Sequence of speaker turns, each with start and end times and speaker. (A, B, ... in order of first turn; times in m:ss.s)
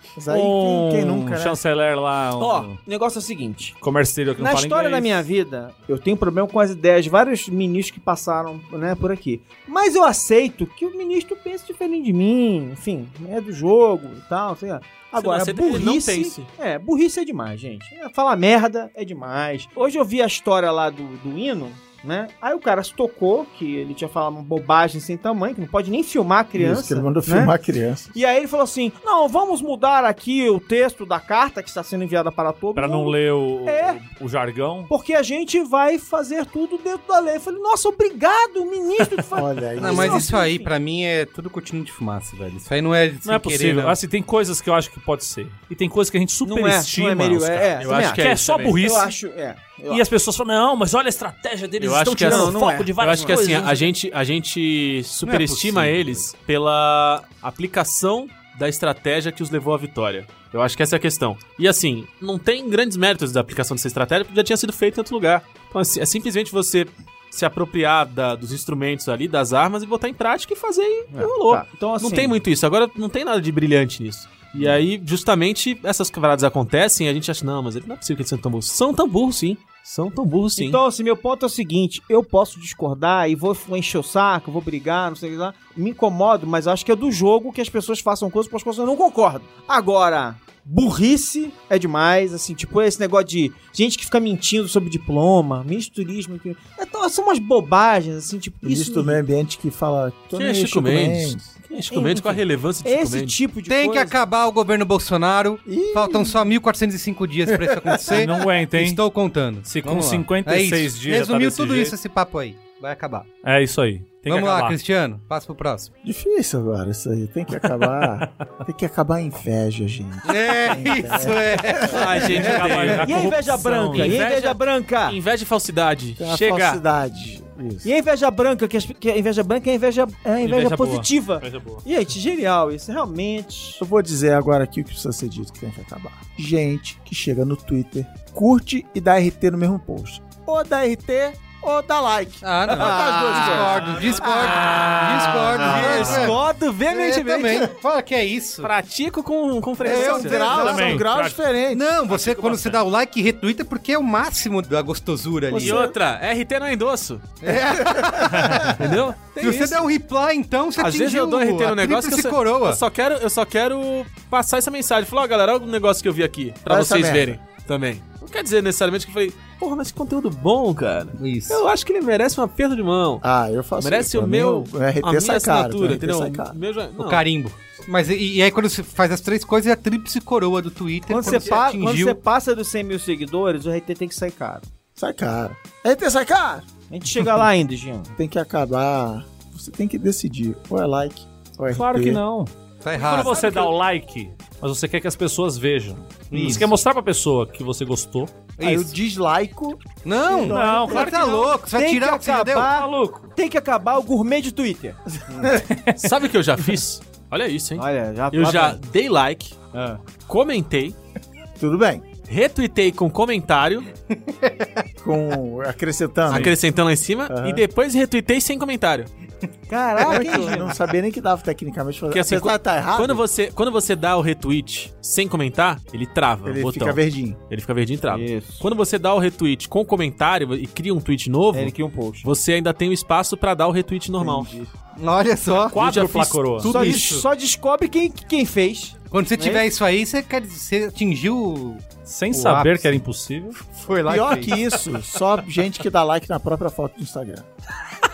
0:00.2-0:01.6 A
0:00.3-0:02.8 B
0:02.4-0:03.8 C
0:03.8-0:05.2 B
0:04.4-0:27.5 C
0:15.2-0:16.5 D
0:26.6-0:28.1 A
0:28.1-0:33.1 C
0:32.8-0:34.9 B
0:33.6-0:34.0 C
0:34.9-0:40.7 C
0:39.3-0:40.3 A
0:39.8-0:44.0 E
0:43.2-0:49.1 B
0:46.4-0:50.0 C
0:47.8-0:48.8 D
0:49.9-0:53.8 B
0:51.8-1:20.8 D
0:52.2-0:53.9 C
0:55.2-0:56.2 E
1:11.1-1:12.4 C
1:20.6-1:39.2 C
1:38.6-1:41.5 A
1:40.3-1:43.4 D
1:41.9-1:44.2 C
1:43.7-1:53.3 E
1:45.6-1:46.5 A
1:47.5-1:48.2 A
1:48.1-1:49.0 B
1:49.6-1:52.0 B
1:53.4-1:54.8 B
1:54.2-1:55.9 E
1:56.0-2:02.6 A
2:00.2-2:03.0 E
2:01.8-2:06.8 D
2:02.4-2:04.2 B
2:03.0-2:05.2 C
2:06.2-2:07.9 A
2:07.8-2:13.8 C
2:10.4-2:11.8 B
2:13.8-2:26.2 A
2:22.4-2:28.7 E
2:23.1-2:26.6 C
2:25.4-2:27.7 D
2:25.9-2:26.2 B
2:28.6-2:30.6 D
2:29.8-2:31.8 A
2:29.8-2:31.0 E
2:30.4-2:31.4 B
2:31.7-2:35.9 E
2:32.1-2:32.8 B
2:35.5-2:36.0 A
2:35.5-2:37.4 D
2:37.4-2:42.8 E
2:38.6-2:39.9 D
2:40.8-2:53.2 D
2:46.6-2:47.4 A
2:51.2-2:51.6 E
2:53.2-2:56.5 A
2:53.8-2:57.2 D
2:57.0-3:02.2 E
3:01.1-3:04.6 C
3:01.2-3:01.6 D
3:05.0-3:06.6 A
3:06.9-3:08.1 C
3:08.1-3:12.2 A
3:11.7-3:18.3 B
3:12.8-3:13.5 E
3:13.2-3:13.7 D
3:16.3-3:16.7 E
3:18.6-3:18.9 E
3:18.6-3:20.5 A
3:20.0-3:22.7 E
3:20.4-3:21.5 B
3:20.5-3:25.0 C
3:22.7-3:23.3 B
3:25.6-3:25.9 B
3:26.0-3:29.7 D
3:27.8-3:28.8 C
3:30.3-3:31.0 D
3:31.6-3:32.0 A
3:32.3-3:33.9 D
3:34.3-3:34.7 E
3:35.0-3:36.6 A
3:36.3-3:39.1 D
3:37.3-3:37.6 A
3:39.7-3:40.7 C
3:40.0-3:43.2 A
3:40.0-3:40.5 D
3:42.1-3:54.5 D
3:46.4-3:47.4 A
3:48.1-3:48.7 C
3:51.5-3:52.3 C
3:54.2-3:54.7 A
3:55.0-3:55.9 E
3:55.7-3:56.7 B
3:55.7-3:57.2 D
3:56.6-3:57.1 E
3:56.6-3:59.7 C
3:59.1-4:03.0 E
4:02.0-4:03.6 B
4:03.6-4:04.6 E
4:04.0-4:07.5 A